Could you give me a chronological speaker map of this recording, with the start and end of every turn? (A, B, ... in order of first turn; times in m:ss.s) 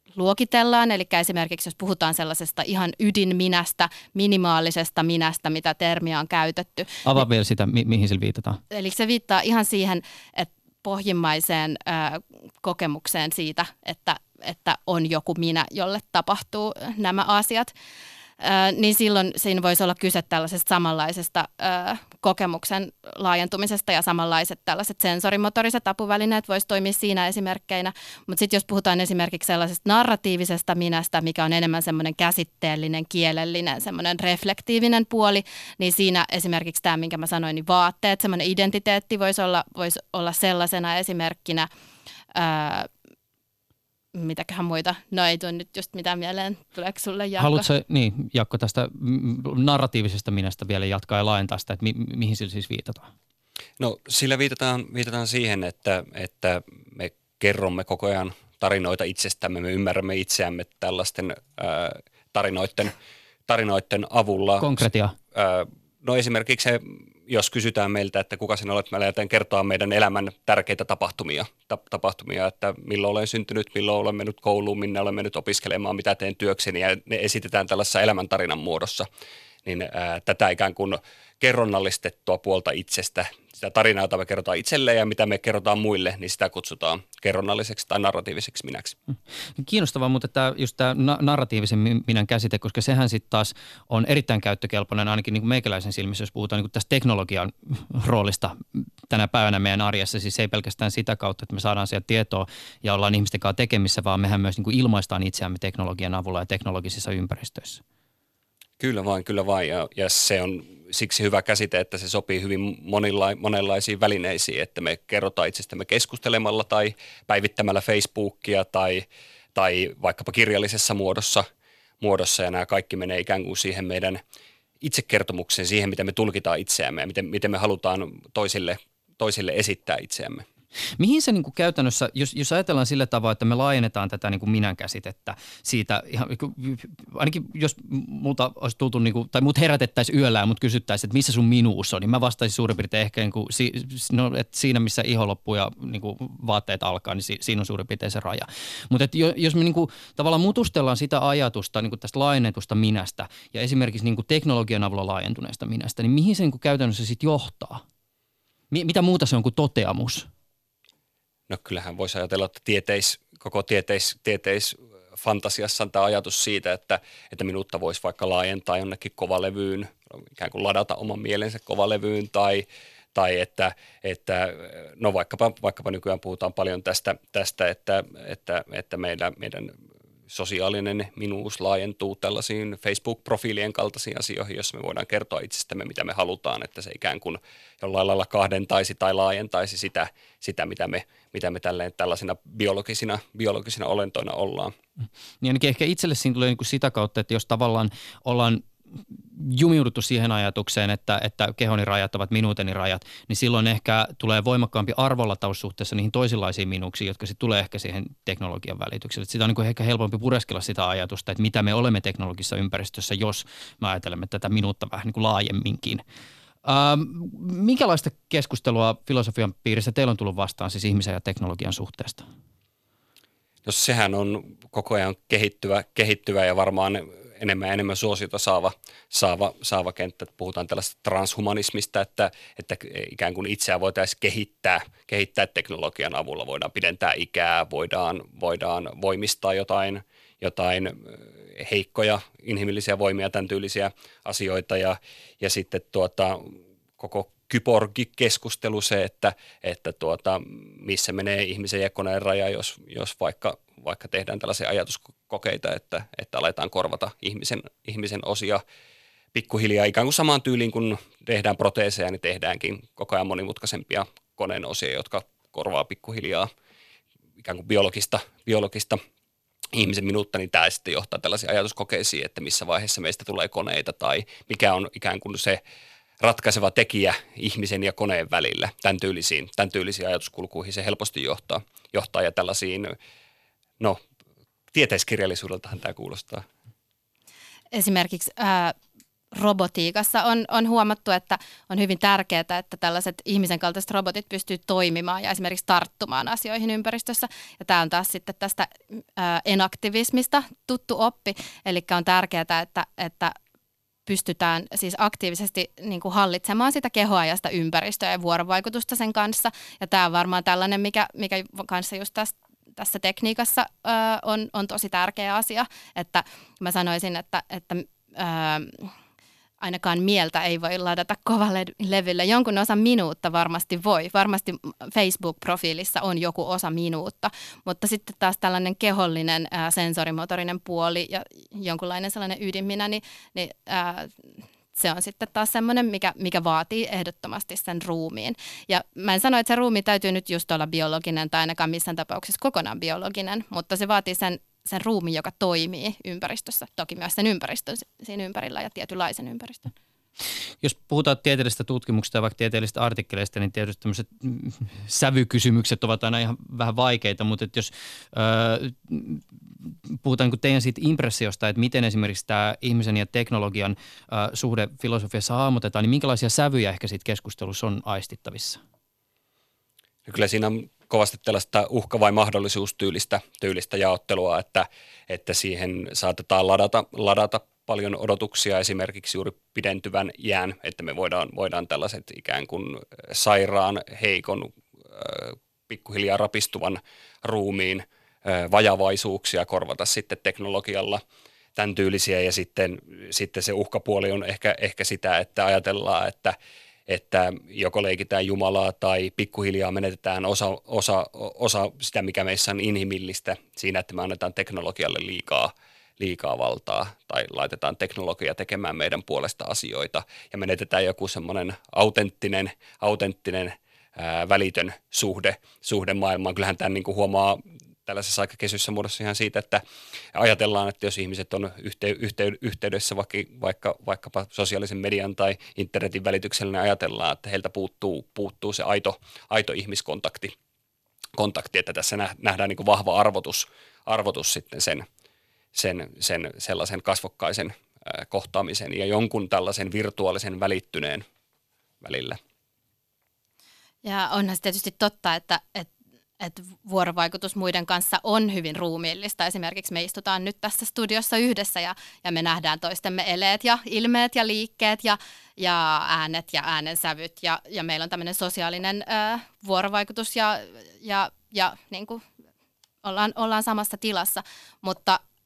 0:00.1-0:07.0 A
0:07.0-0:08.6 B
0:08.7-0:17.7 A
0:18.4-0:41.7 A
0:42.3-0:42.9 A
0:44.1-0:47.6 A
0:47.4-0:53.1 B
0:53.8-1:02.9 C
1:03.5-1:04.8 C
1:04.6-1:05.1 B
1:05.3-1:19.1 C
1:19.6-1:29.0 C
1:29.6-1:47.8 B
1:48.8-2:01.4 C
2:02.0-2:04.2 C
2:04.8-2:10.4 C
2:11.0-2:37.8 B
2:38.7-2:40.3 B
2:41.5-2:59.7 C
3:00.3-3:14.7 C
3:15.4-3:36.0 B
3:36.6-3:42.2 B
3:43.6-4:18.6 C
4:19.3-4:26.5 C
4:27.4-4:29.0 C
4:29.7-4:35.6 C
4:36.2-4:42.9 C
4:44.7-4:46.4 C
4:47.7-4:48.7 A
4:49.3-5:03.3 A
5:04.0-5:18.9 A
5:19.6-5:34.1 A
5:34.7-5:49.7 A
5:50.6-6:08.6 B
6:10.0-6:31.0 C
6:31.6-6:36.3 C
6:36.9-6:59.6 C
7:00.1-7:10.3 C
7:11.2-7:14.8 C
7:15.5-7:21.0 C
7:21.8-7:22.2 C
7:23.8-7:42.0 A
7:42.8-7:45.0 A